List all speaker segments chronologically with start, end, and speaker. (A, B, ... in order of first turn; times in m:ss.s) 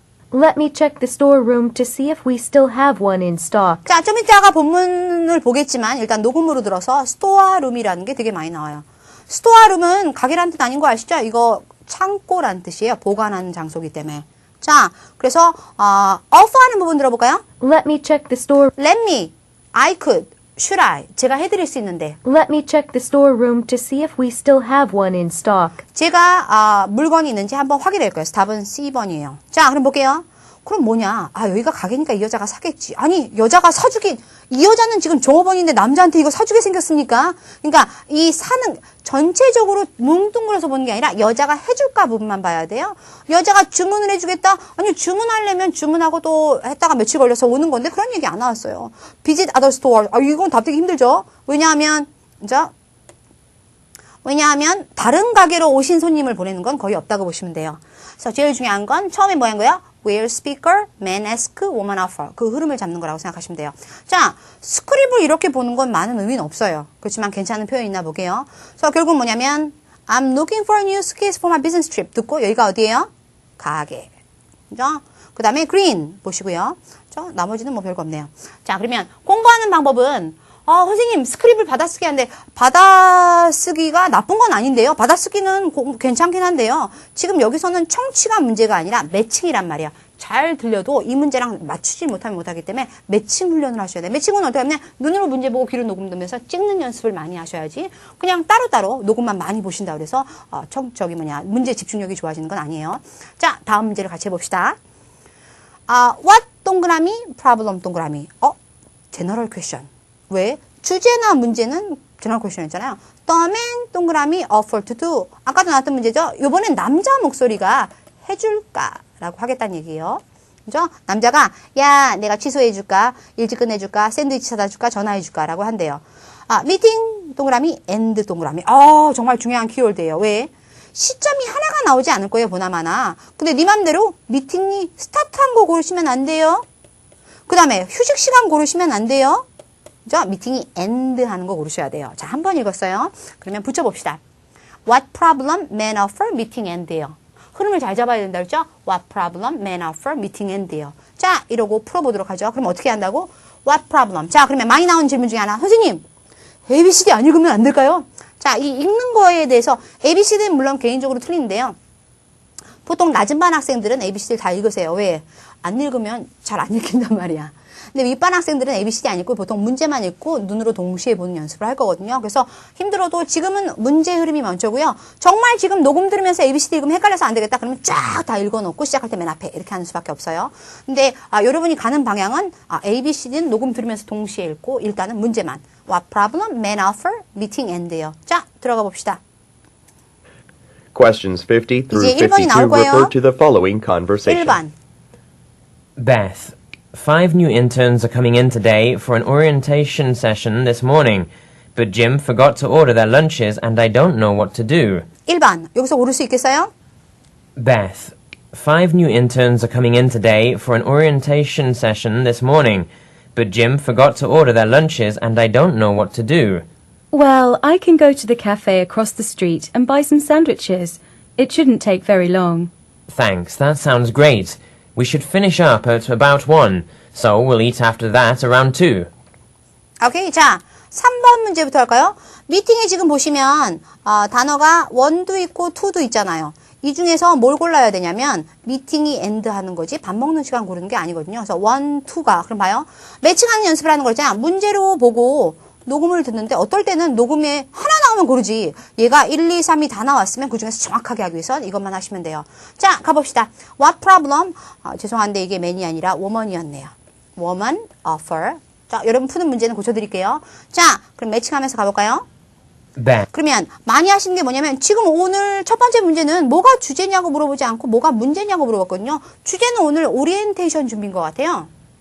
0:00.3-0:03.8 A
0:03.8-0:17.4 B
0:17.6-0:18.7 A
0:18.8-0:22.2 B
0:22.2-0:25.8 A
0:25.9-0:52.7 B
0:54.2-1:14.1 B
1:14.7-1:44.8 B
1:45.9-1:48.6 B
1:49.1-2:16.6 B
2:17.5-2:19.4 B
2:20.0-2:24.2 B
2:24.8-2:36.0 B
2:36.7-2:41.8 B
2:42.8-3:09.2 B
3:10.9-3:14.6 C
3:11.9-3:13.1 B
3:14.2-3:14.7 B
3:16.0-3:25.0 D
3:25.3-3:26.7 B
3:27.6-3:36.6 D
3:37.1-3:42.7 E
3:43.1-3:49.1 D
3:50.0-4:22.2 B
4:23.0-4:23.3 D
4:23.3-4:31.7 B